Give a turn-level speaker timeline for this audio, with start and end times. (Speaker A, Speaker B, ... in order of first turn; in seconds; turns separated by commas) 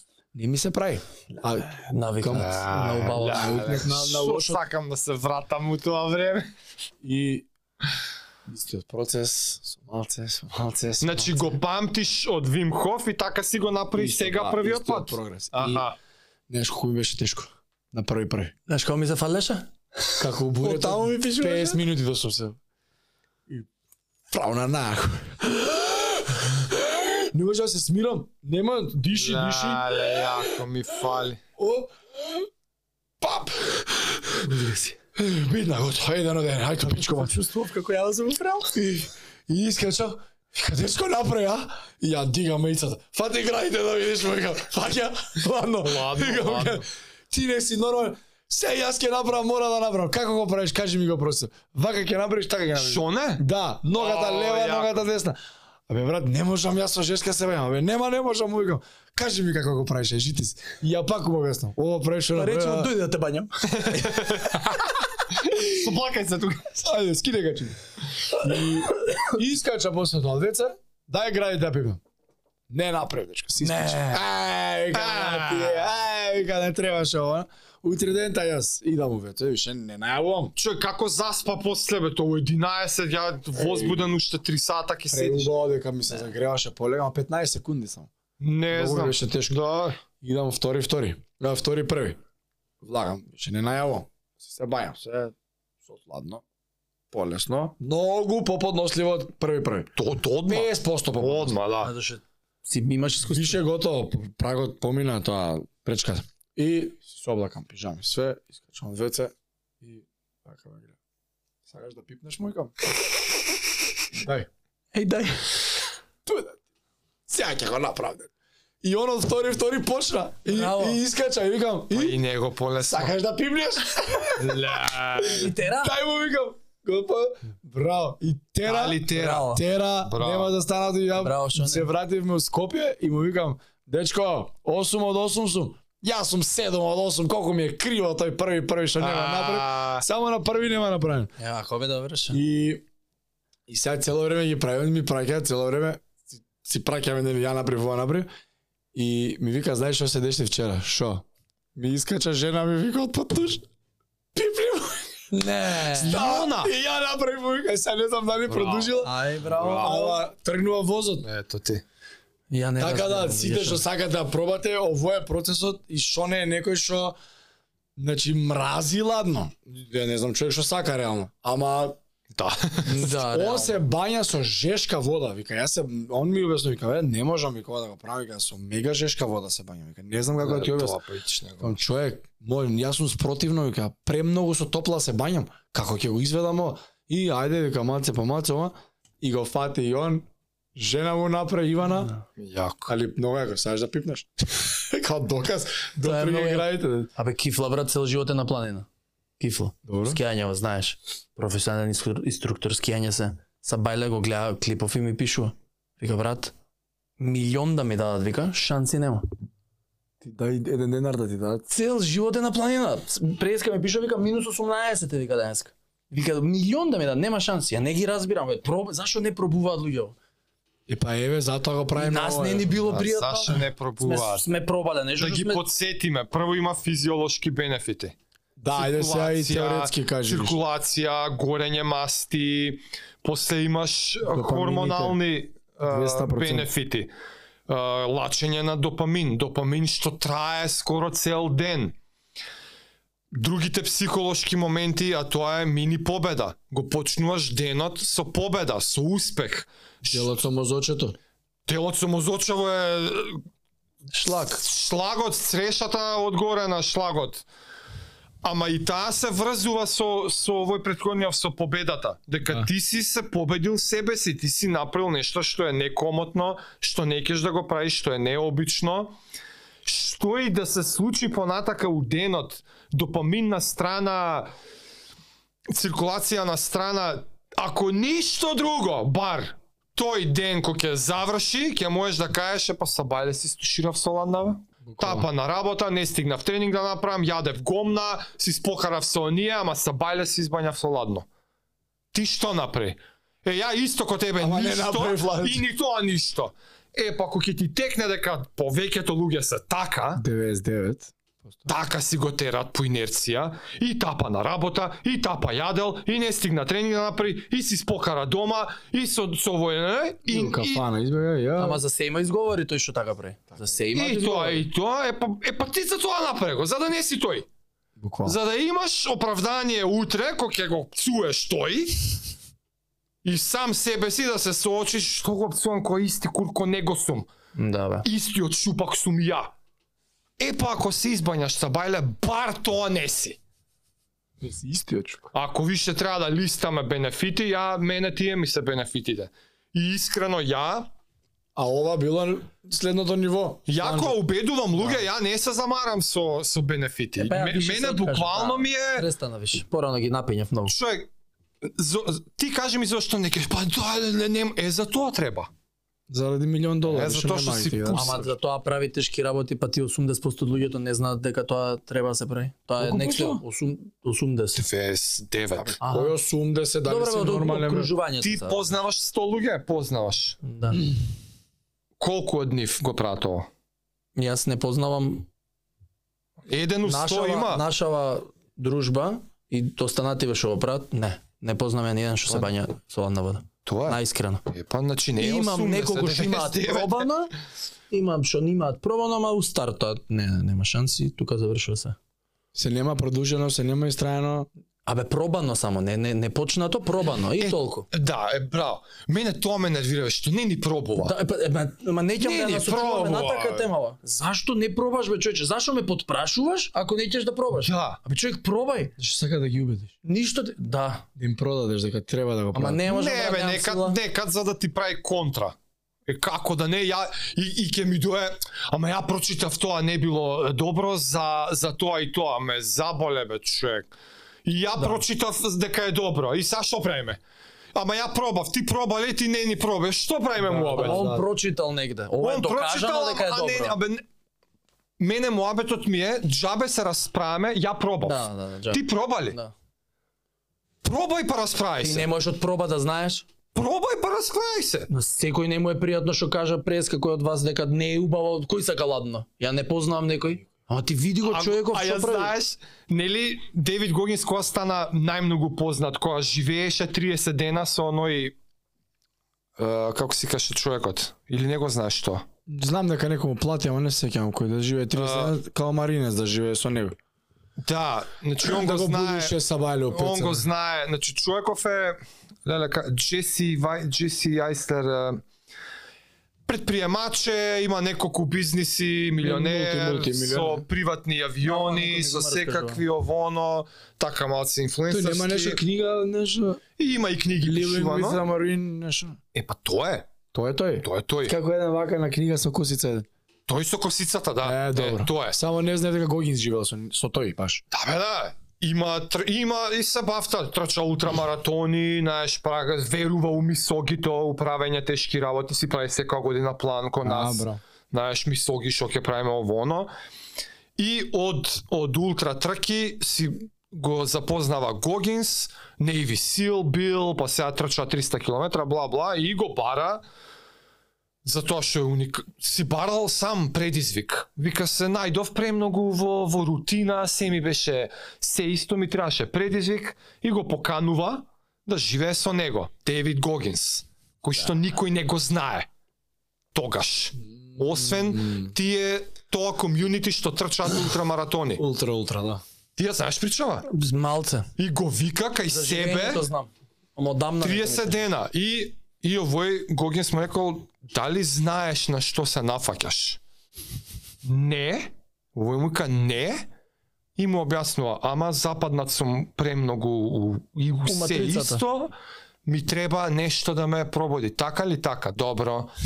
Speaker A: 0.3-4.6, Speaker B: 1.7-4.0, Speaker C: 2.4-6.5, Speaker A: 7.0-7.5, Speaker A: 8.5-11.6, Speaker C: 11.0-16.0, Speaker A: 13.9-15.9, Speaker A: 16.5-18.5, Speaker B: 18.7-21.8, Speaker A: 20.2-22.6, Speaker A: 24.3-30.5, Speaker C: 29.1-31.4, Speaker A: 31.6-32.5, Speaker A: 33.2-34.5, Speaker B: 34.4-34.9, Speaker A: 35.1-37.4, Speaker B: 37.1-38.8, Speaker A: 38.7-55.4, Speaker C: 45.8-46.8, Speaker C: 52.8-55.0, Speaker A: 55.9-62.9, Speaker B: 62.3-64.7, Speaker C: 63.7-66.7, Speaker A: 66.7-72.0, Speaker A: 72.7-80.5, Speaker B: 73.6-74.2, Speaker C: 74.9-75.9, Speaker C: 80.5-85.5, Speaker A: 83.5-84.0, Speaker A: 85.1-88.1, Speaker C: 88.4-90.0, Speaker A: 88.7-89.6, Speaker A: 90.2-92.2, Speaker A: 92.8-96.4, Speaker A: 97.1-99.9, Speaker C: 100.0-101.9, Speaker A: 100.5-101.6, Speaker B: 101.8-103.6, Speaker A: 103.3-111.0, Speaker A: 111.7-112.8, Speaker A: 114.1-114.5, Speaker B: 114.9-115.6, Speaker A: 116.2-116.6, Speaker A: 117.3-118.3, Speaker A: 118.8-122.2, Speaker B: 120.5-121.0, Speaker C: 121.9-123.1, Speaker A: 122.9-141.3, Speaker C: 124.3-125.5, Speaker B: 125.2-126.0, Speaker C: 128.6-129.5, Speaker B: 129.1-129.6, Speaker C: 130.1-130.5, Speaker B: 131.2-131.9, Speaker C: 139.0-140.0, Speaker B: 141.4-142.4, Speaker A: 142.3-142.8, Speaker A: 143.7-148.3, Speaker A: 148.9-153.7, Speaker A: 154.3-155.2, Speaker B: 155.3-156.2, Speaker A: 155.8-161.2, Speaker C: 156.0-156.7, Speaker C: 158.5-160.1, Speaker B: 159.0-160.2, Speaker C: 161.2-161.8, Speaker B: 162.5-163.8, Speaker A: 162.8-167.2, Speaker A: 168.0-172.0, Speaker C: 172.3-173.1, Speaker A: 172.8-181.0, Speaker B: 172.8-173.8, Speaker C: 180.4-181.8, Speaker A: 181.6-192.1, Speaker C: 192.4-192.9, Speaker A: 192.9-197.1, Speaker B: 196.0-198.9, Speaker B: 199.4-206.5, Speaker A: 199.8-200.2, Speaker B: 207.2-209.2, Speaker A: 210.2-211.7, Speaker B: 211.7-220.2, Speaker A: 220.9-222.8, Speaker B: 221.9-225.6, Speaker C: 222.8-224.4, Speaker C: 225.2-228.1, Speaker A: 228.6-230.6, Speaker C: 228.7-237.1, Speaker A: 234.2-235.2, Speaker A: 235.9-236.7, Speaker C: 237.7-241.9, Speaker C: 243.3-250.3, Speaker A: 250.1-251.2, Speaker C: 251.7-253.4, Speaker B: 254.1-254.6, Speaker C: 254.6-257.4, Speaker C: 258.4-269.1, Speaker C: 269.8-274.5, Speaker C: 275.7-291.2, Speaker A: 284.8-285.3, Speaker C: 292.1-300.2, Speaker A: 294.4-295.7, Speaker A: 300.1-301.7, Speaker C: 301.6-310.8, Speaker A: 310.2-311.8, Speaker B: 311.6-314.6, Speaker C: 313.9-317.4, Speaker A: 318.0-318.4, Speaker C: 318.2-322.2, Speaker C: 323.2-327.3, Speaker B: 327.6-328.1, Speaker C: 328.0-329.5, Speaker C: 330.4-333.4, Speaker A: 334.4-335.3, Speaker C: 335.3-340.9, Speaker A: 341.5-344.2, Speaker C: 343.7-349.1, Speaker B: 347.1-350.7, Speaker C: 350.7-351.1, Speaker C: 351.6-355.5, Speaker A: 356.1-358.2, Speaker C: 356.9-358.2, Speaker B: 357.9-364.6, Speaker A: 362.8-363.4, Speaker C: 364.6-365.8, Speaker A: 365.6-367.9, Speaker B: 365.8-366.1, Speaker B: 366.8-368.6, Speaker C: 368.2-370.4, Speaker B: 370.4-370.8, Speaker C: 372.0-373.5, Speaker B: 374.1-375.3, Speaker C: 376.5-377.6, Speaker B: 376.8-384.4, Speaker C: 383.6-384.0, Speaker C: 384.5-387.1, Speaker B: 385.2-387.3, Speaker B: 387.9-391.9, Speaker A: 392.5-394.5, Speaker B: 394.9-397.9, Speaker C: 397.4-401.1, Speaker B: 401.0-408.9, Speaker C: 402.2-403.6, Speaker C: 407.6-408.0, Speaker A: 409.0-409.9, Speaker B: 410.0-411.1, Speaker A: 411.1-412.8, Speaker B: 412.5-414.0, Speaker C: 412.9-415.5, Speaker C: 416.1-423.9, Speaker C: 424.4-427.2, Speaker B: 424.8-425.0, Speaker C: 427.7-431.1, Speaker A: 430.4-431.2, Speaker B: 430.7-433.8, Speaker C: 432.2-434.0, Speaker C: 435.0-439.4, Speaker B: 438.0-439.5, Speaker C: 440.8-442.1, Speaker B: 441.8-443.2, Speaker C: 443.5-444.9, Speaker B: 444.9-452.3, Speaker C: 451.2-458.3, Speaker C: 459.6-462.2, Speaker A: 462.5-466.9, Speaker C: 464.9-465.3, Speaker C: 467.6-469.3, Speaker A: 468.4-470.5, Speaker C: 469.9-475.2, Speaker C: 476.5-485.6, Speaker A: 479.2-480.7, Speaker B: 481.4-482.8, Speaker A: 484.9-486.6, Speaker C: 486.8-488.2, Speaker A: 487.4-489.2, Speaker C: 489.3-490.1, Speaker A: 490.3-493.1, Speaker C: 490.8-491.4, Speaker C: 493.5-495.4, Speaker A: 494.4-497.6, Speaker C: 497.7-509.9, Speaker A: 507.0-507.6, Speaker C: 510.8-520.0, Speaker C: 521.2-535.7, Speaker C: 536.5-541.6, Speaker A: 537.6-538.5, Speaker A: 541.6-542.4, Speaker C: 542.8-543.7, Speaker B: 543.6-544.5, Speaker C: 544.6-546.2, Speaker B: 545.5-548.0, Speaker C: 547.4-553.2, Speaker C: 554.2-556.5, Speaker C: 557.2-561.9, Speaker B: 560.8-561.6, Speaker C: 562.5-565.7